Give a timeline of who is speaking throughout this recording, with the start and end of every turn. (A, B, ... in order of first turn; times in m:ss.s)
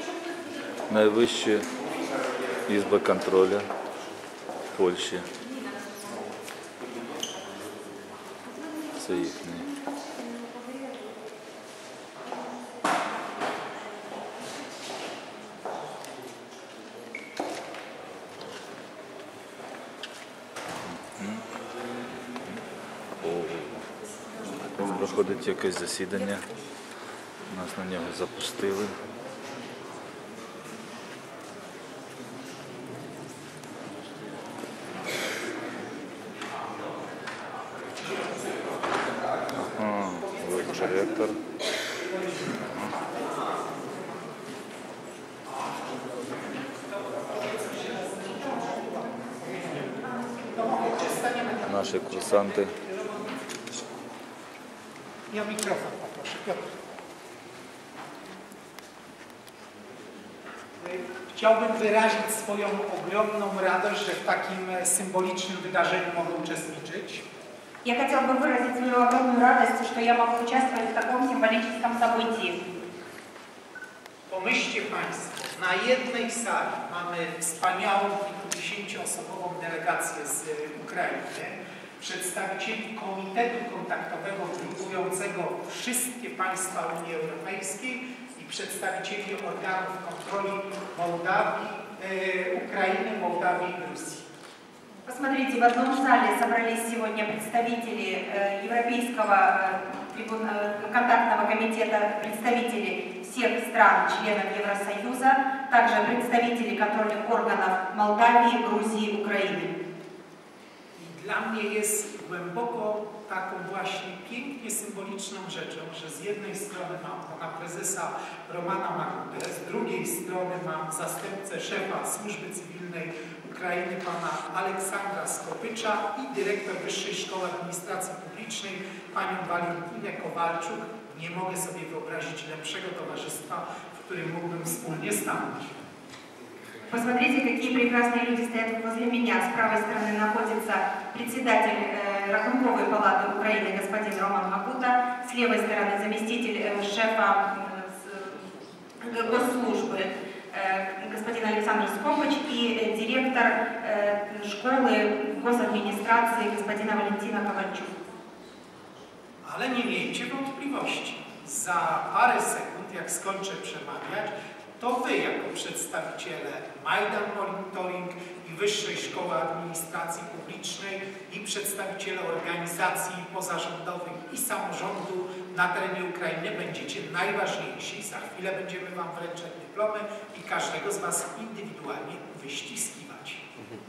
0:00.9-0:01.7 A
0:02.7-0:03.7 A
0:04.8-0:05.3 A
0:09.0-0:09.7 A
0:21.2-0:21.4 A
0:23.2-0:23.8 A
0:24.6-0:26.5 A
0:27.5-0:28.9 A
0:39.6-0:41.4 A
0:40.2-0:41.1 B
0:42.0-0:42.6 B
0:43.1-0:43.4 B
0:45.5-0:45.8 B
0:46.9-0:53.3 B
0:51.7-0:52.7 A
0:55.3-0:56.7 B
1:00.8-1:07.2 B
1:07.8-1:12.6 C
1:14.3-1:34.2 B
1:35.0-1:49.7 C
1:51.0-2:15.7 B
2:16.9-2:28.5 C
2:29.0-2:38.0 C
2:39.4-3:03.4 B